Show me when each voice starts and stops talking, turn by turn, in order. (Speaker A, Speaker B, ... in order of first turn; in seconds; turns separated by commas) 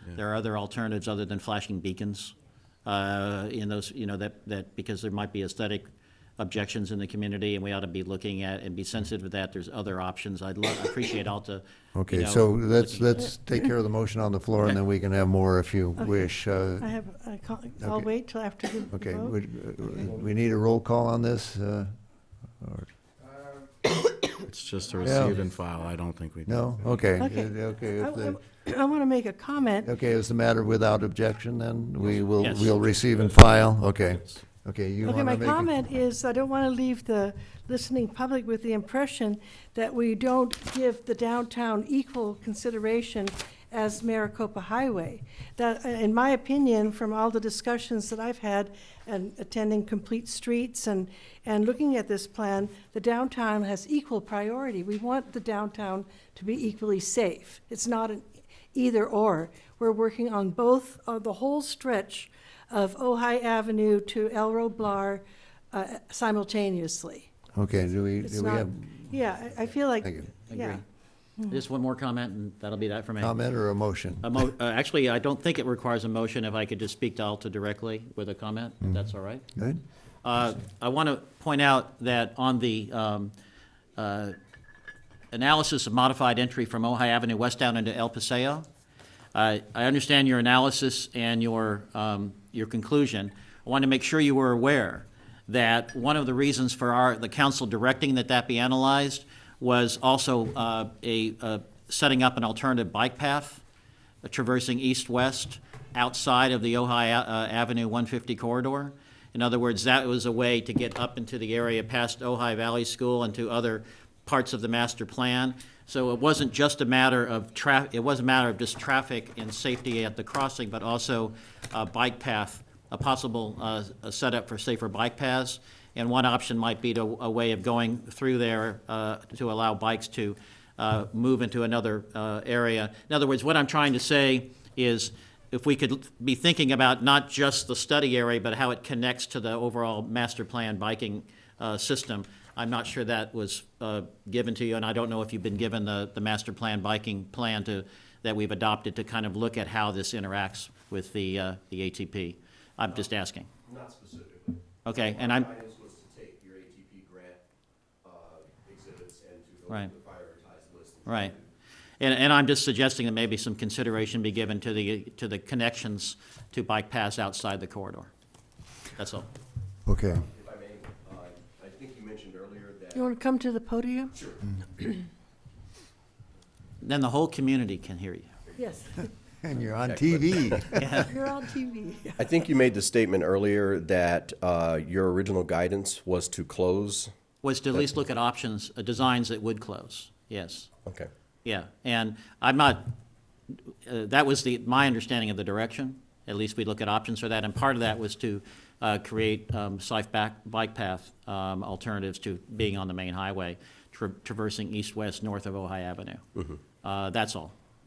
Speaker A: 0.1-2.3, Speaker A: 2.9-5.9, Speaker A: 6.4-13.3, Speaker B: 11.9-16.9, Speaker C: 16.0-19.4, Speaker B: 17.8-18.1, Speaker B: 18.9-21.9, Speaker B: 22.6-22.9, Speaker D: 24.4-26.6, Speaker B: 25.0-25.4, Speaker B: 26.5-28.4, Speaker C: 27.2-29.9, Speaker B: 29.8-35.7, Speaker A: 32.4-32.8, Speaker C: 35.0-67.3, Speaker B: 67.5-69.0, Speaker C: 68.2-70.8, Speaker B: 70.0-70.3, Speaker A: 70.5-70.8, Speaker A: 71.5-73.3, Speaker B: 73.2-74.3, Speaker A: 74.2-79.5, Speaker A: 80.2-83.3, Speaker A: 84.0-84.4, Speaker A: 85.3-88.7, Speaker A: 89.3-103.6, Speaker A: 104.2-153.5, Speaker E: 153.7-157.4, Speaker A: 154.8-155.5, Speaker E: 158.0-161.4, Speaker A: 161.1-161.3, Speaker A: 162.0-168.1, Speaker A: 169.0-169.3, Speaker B: 169.9-170.2, Speaker E: 170.3-173.1, Speaker C: 172.9-174.3, Speaker A: 176.8-178.3, Speaker C: 178.6-179.0, Speaker B: 179.4-181.0, Speaker E: 179.8-180.7, Speaker A: 180.7-181.2, Speaker C: 181.0-182.3, Speaker E: 182.2-187.1, Speaker A: 187.4-190.7, Speaker A: 191.4-192.9, Speaker A: 193.8-206.2, Speaker A: 206.8-207.5